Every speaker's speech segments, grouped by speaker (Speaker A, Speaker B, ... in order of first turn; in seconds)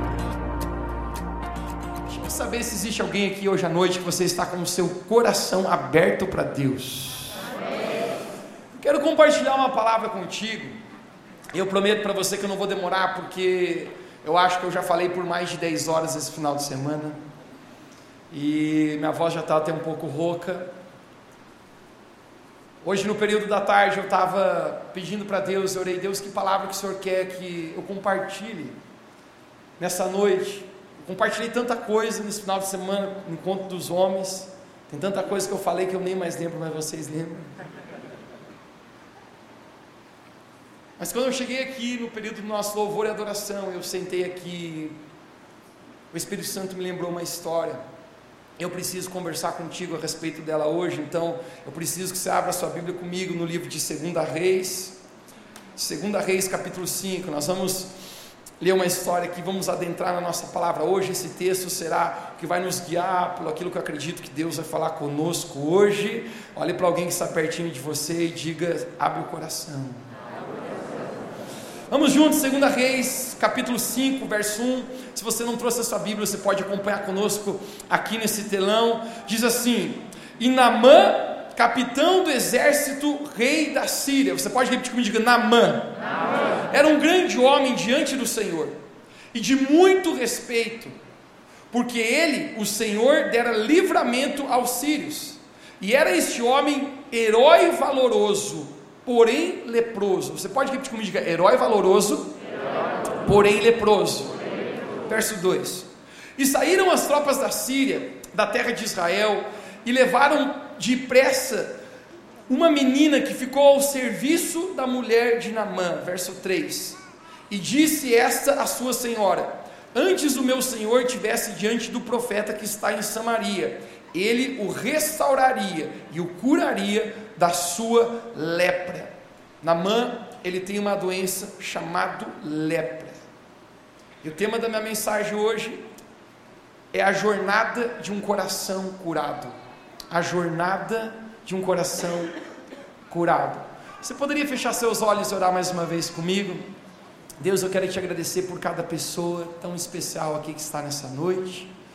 Speaker A: 2.1-7.4, 8.7-10.8, 11.5-17.2, 18.3-20.7, 22.8-28.8, 29.8-37.5, 41.0-45.0, 46.1-47.8, 48.6-55.0, 55.8-57.9, 58.6-70.0, 71.9-85.9, 86.7-88.8, 89.3-90.9, 91.7-102.3, 103.2-104.3, 105.1-111.8, 112.5-117.0, 117.5-133.2, 134.2-135.8, 136.9-139.5, 140.1-142.3, 143.1-146.6, 147.4-151.7